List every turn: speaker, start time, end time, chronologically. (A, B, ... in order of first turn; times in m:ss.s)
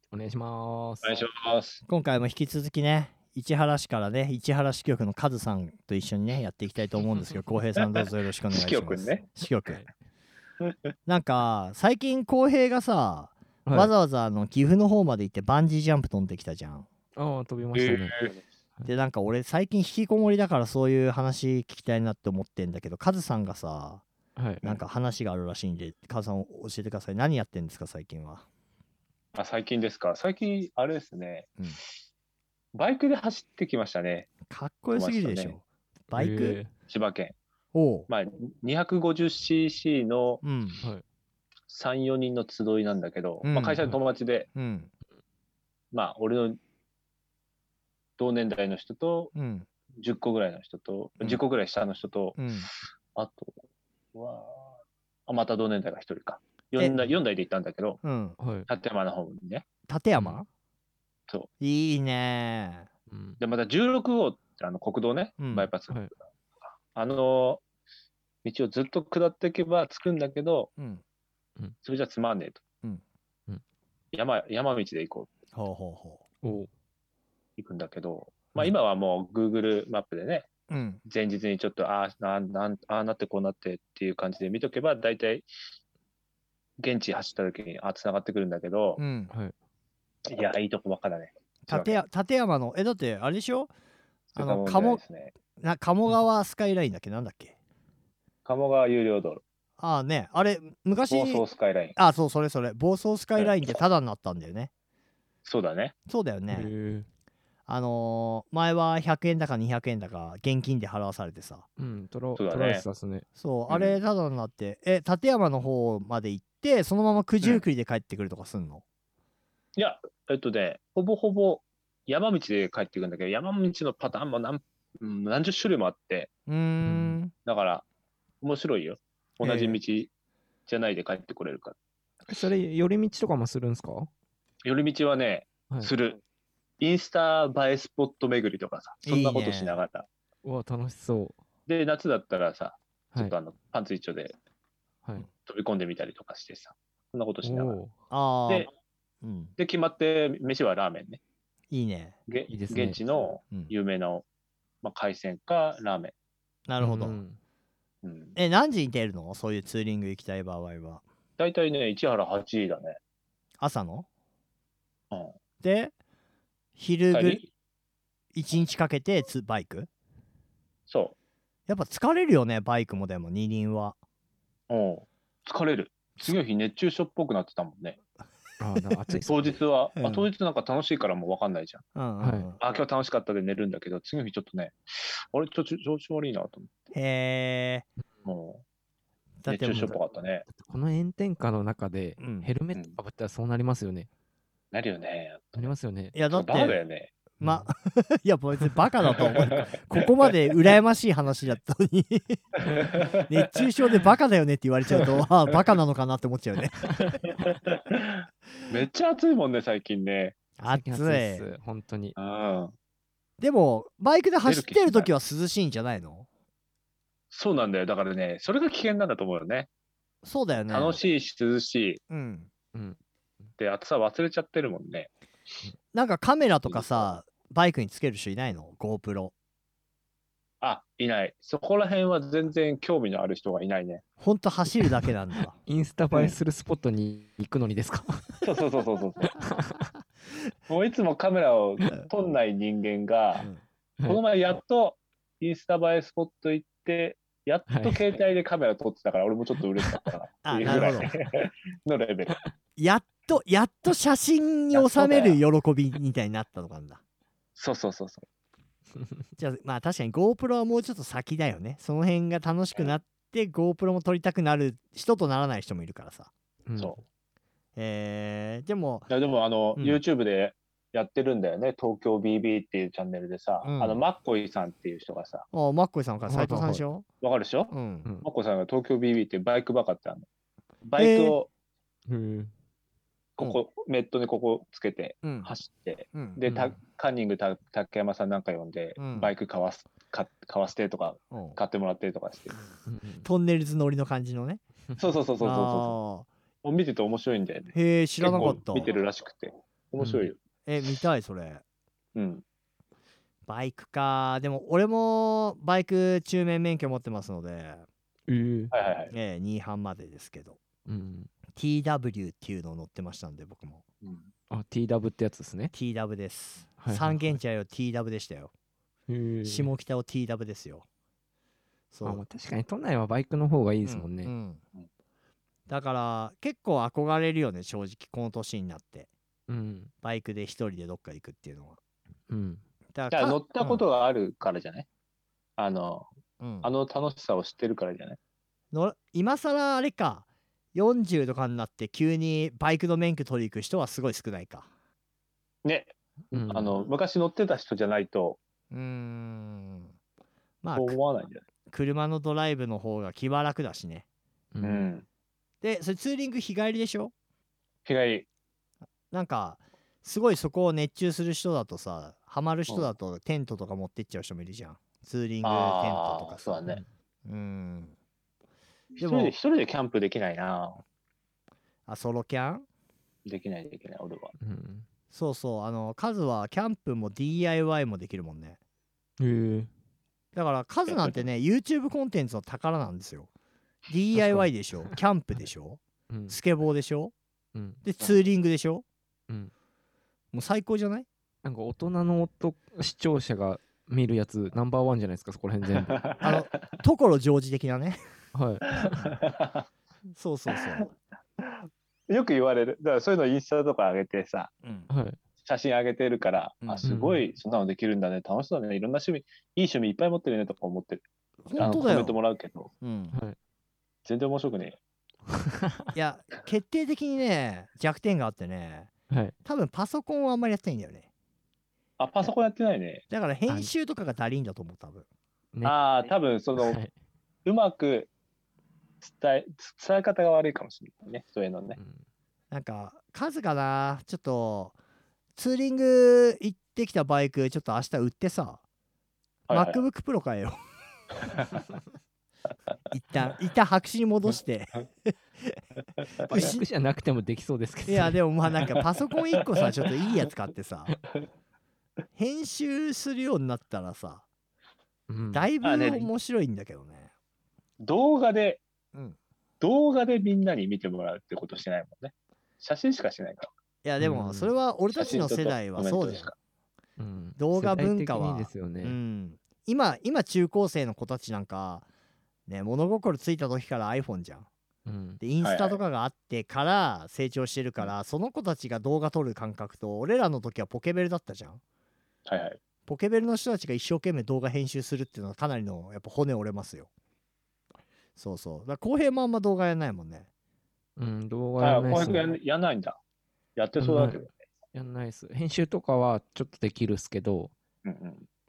0:00.1-0:01.2 A
0:01.0-0:01.8 B
0:01.8-0:09.8 C
0:08.5-0:09.2 B
0:11.0-0:16.9 C
0:13.6-0:13.9 A
0:17.2-0:18.2 A
0:17.7-0:18.4 B
0:18.8-0:24.0 C
0:24.4-0:24.8 A
0:24.6-0:28.4 C
0:29.3-0:31.5 B
0:32.7-0:34.3 B
0:34.5-0:36.6 C
0:34.9-0:35.6 B
0:36.1-0:36.7 A
0:36.9-0:37.3 B
0:37.7-0:38.1 C
0:38.1-0:40.4 B
0:40.4-0:40.8 C
0:41.7-0:44.5 B
0:43.4-0:43.8 C
0:44.5-0:44.9 C
0:45.9-0:46.6 B
0:48.2-0:49.3 B
0:49.3-0:49.7 C
0:50.0-0:52.4 B
0:52.4-0:52.7 C
0:53.1-0:53.5 B
0:54.1-0:58.0 B
0:58.0-0:58.4 C
0:58.4-0:58.7 A
0:58.7-0:59.6 B
0:59.9-1:00.5 C
1:00.2-1:00.4 A
1:01.6-1:02.9 C
1:03.1-1:03.4 A
1:03.4-1:06.1 B
1:05.4-1:05.7 C
1:06.9-1:07.6 B
1:08.4-1:10.7 B
1:11.8-1:12.6 B
1:14.1-1:15.3 B
1:15.5-1:16.2 C
1:16.4-1:16.7 A
1:17.6-1:20.5 B
1:20.7-1:21.0 C
1:21.0-1:25.5 B
1:26.8-1:29.0 B
1:29.0-1:29.3 C
1:30.3-1:32.0 B
1:31.7-1:33.7 C
1:34.3-1:35.0 C
1:34.4-1:35.3 B
1:35.6-1:37.6 C
1:38.4-1:39.4 B
1:39.8-1:41.4 C
1:41.1-1:42.0 B
1:42.0-1:44.7 C
1:45.4-1:45.9 B
1:46.1-1:46.7 C
1:46.5-1:47.1 A
1:47.7-1:51.6 C
1:51.8-1:53.2 A
1:52.4-1:52.8 B
1:53.4-1:58.8 C
1:53.7-1:54.0 B
1:59.8-2:06.3 B
2:06.5-2:07.3 C
2:06.8-2:07.2 A
2:07.4-2:07.8 B
2:08.4-2:10.1 B
2:09.4-2:09.8 C
2:10.7-2:11.7 B
2:12.3-2:14.1 A
2:14.6-2:16.2 B
2:16.8-2:20.1 B
2:19.0-2:19.8 C
2:20.4-2:21.4 A
2:21.7-2:24.4 B
2:25.4-2:27.8 B
2:27.4-2:27.9 A
2:28.1-2:28.7 C
2:29.2-2:29.5 C
2:29.6-2:31.2 B
2:31.7-2:32.2 C
2:32.3-2:34.2 B
2:32.5-2:33.0 A
2:34.8-2:36.1 B
2:36.7-2:37.2 C
2:36.8-2:37.4 A
2:38.0-2:38.4 B
2:38.4-2:41.0 C
2:41.4-2:43.0 B
2:43.6-2:44.1 C
2:45.6-2:45.9 C
2:46.8-2:47.4 C
2:47.1-2:47.5 B
2:48.3-2:49.9 C
2:50.9-2:51.1 B
2:51.7-2:54.0 C
2:54.7-2:58.0 B
2:58.6-2:59.6 A
2:59.3-3:01.8 B
3:00.0-3:00.3 C
3:01.9-3:02.6 C
3:02.2-3:02.5 A
3:02.6-3:06.7 B
3:06.9-3:07.9 C
3:08.2-3:08.6 B
3:09.4-3:10.0 C
3:09.4-3:10.5 B
3:10.5-3:14.1 A
3:12.2-3:12.5 C
3:14.7-3:15.7 B
3:15.5-3:16.2 A
3:16.1-3:16.8 C
3:16.3-3:17.1 B
3:17.4-3:26.9 C
3:17.4-3:17.7 A
3:19.1-3:20.0 B
3:22.6-3:23.6 B
3:26.8-3:27.2 A
3:27.3-3:30.4 B
3:30.6-3:31.4 C
3:30.7-3:32.1 A
3:32.2-3:32.7 B
3:33.4-3:36.3 C
3:34.4-3:35.1 B
3:37.3-3:39.7 B
3:40.2-3:41.0 C
3:40.7-3:42.0 B
3:42.1-3:42.5 C
3:43.6-3:45.1 B
3:45.9-3:49.3 C
3:46.6-3:47.2 B
3:50.6-3:54.0 B
3:54.2-3:55.5 C
3:54.9-3:58.4 A
3:58.4-3:59.3 B
3:59.3-3:59.9 A
4:00.7-4:03.5 B
4:04.0-4:12.4 B
4:07.7-4:08.1 A
4:10.4-4:11.1 C
4:10.6-4:11.1 A
4:12.8-4:17.0 C
4:14.7-4:15.4 B
4:17.6-4:18.2 B
4:19.4-4:26.3 C
4:26.6-4:27.0 A
4:27.8-4:29.1 C
4:29.1-4:35.4 B
4:29.8-4:30.0 C
4:33.6-4:34.0 C
4:35.5-4:37.0 C
4:36.3-4:36.8 A
4:37.2-4:40.2 B
4:37.7-4:38.1 C
4:40.8-4:41.5 B
4:41.0-4:41.4 C
4:42.1-4:42.5 A
4:43.4-4:52.6 B
4:45.2-4:45.5 C
4:46.1-4:46.4 C
4:46.5-4:46.8 A
4:49.0-4:49.3 C
4:51.3-4:51.6 C
4:52.8-4:53.3 A
4:53.2-4:54.6 C
4:55.0-4:56.0 B
4:55.4-4:56.3 C
4:56.6-5:00.4 B
4:57.7-4:58.9 C
5:00.0-5:00.3 A
5:00.6-5:01.6 C
5:02.1-5:02.4 B
5:03.5-5:07.8 C
5:08.3-5:08.7 A
5:08.7-5:09.1 B
5:09.1-5:10.6 C
5:10.9-5:11.3 A
5:11.5-5:13.8 C
5:14.0-5:14.3 B
5:14.5-5:15.7 A
5:15.7-5:18.5 C
5:16.8-5:17.4 A
5:19.1-5:19.7 A
5:19.4-5:20.8 C
5:21.9-5:22.2 C
5:22.0-5:24.3 A
5:23.8-5:24.6 C
5:25.7-5:29.1 C
5:29.5-5:29.9 A
5:30.0-5:31.8 C
5:32.3-5:32.6 A
5:32.9-5:33.8 C
5:33.1-5:34.8 B
5:35.6-5:36.1 B
5:36.4-5:36.7 C
5:36.6-5:38.2 B
5:38.7-5:44.7 C
5:45.6-5:48.4 B
5:46.3-5:46.8 A
5:48.7-5:49.9 C
5:50.6-5:51.0 C
5:50.7-5:51.4 B
5:51.7-5:54.0 C
5:54.5-5:54.9 A
5:54.6-5:55.0 B
5:55.6-5:57.1 C
5:57.8-5:58.2 B
5:59.1-6:06.6 C
6:05.4-6:06.8 B
6:07.2-6:07.9 C
6:09.0-6:10.8 B
6:09.0-6:09.4 C
6:11.9-6:12.6 C
6:13.2-6:14.3 B
6:14.4-6:14.8 A
6:15.1-6:18.6 C
6:19.2-6:19.7 A
6:20.3-6:23.3 C
6:20.9-6:21.2 B
6:23.9-6:27.1 C
6:24.1-6:24.9 A
6:26.1-6:26.4 A
6:27.5-6:27.8 A
6:27.8-6:28.8 C
6:28.0-6:28.2 B
6:30.3-6:31.1 C
6:31.4-6:36.0 A
6:35.8-6:36.4 B
6:36.2-6:38.0 C
6:38.3-6:39.1 A
6:38.8-6:39.6 B
6:40.1-6:40.9 C
6:41.4-6:44.5 B
6:44.6-6:44.9 C
6:44.9-6:45.2 A
6:45.4-6:51.0 B
6:46.6-6:47.0 C
6:46.8-6:47.2 A
6:51.4-6:52.2 C
6:51.6-6:52.7 B
6:52.8-6:53.2 C
6:54.0-6:54.8 B
6:55.9-6:58.9 C
6:59.4-7:01.1 C
7:02.0-7:03.0 B
7:03.1-7:05.0 C
7:05.5-7:05.8 A
7:05.6-7:06.8 B
7:06.6-7:06.9 A
7:07.4-7:08.1 B
7:09.0-7:11.8 B
7:11.8-7:12.0 A
7:12.5-7:14.8 C
7:15.4-7:18.6 C
7:19.5-7:19.8 B
7:19.5-7:20.6 C
7:22.9-7:25.6 C
7:26.3-7:28.2 A
7:26.3-7:26.7 C
7:27.9-7:31.0 C
7:32.2-7:34.2 C
7:35.1-7:35.5 A
7:35.3-7:37.1 C
7:35.6-7:36.1 B
7:37.8-7:38.6 B
7:39.6-7:43.5 B
7:43.8-7:46.3 C
7:44.0-7:44.5 A
7:44.9-7:46.3 B
7:47.0-7:49.0 A
7:47.4-7:51.9 C
7:52.5-7:54.5 C
7:54.8-7:55.2 A
7:55.2-8:01.6 C
7:55.4-7:55.8 B
8:02.2-8:02.6 B
8:02.8-8:06.9 C
8:08.2-8:10.3 C
8:11.0-8:12.3 A
8:11.6-8:13.0 B
8:13.6-8:14.4 B
8:13.8-8:14.2 A
8:14.7-8:17.5 A
8:17.8-8:18.3 B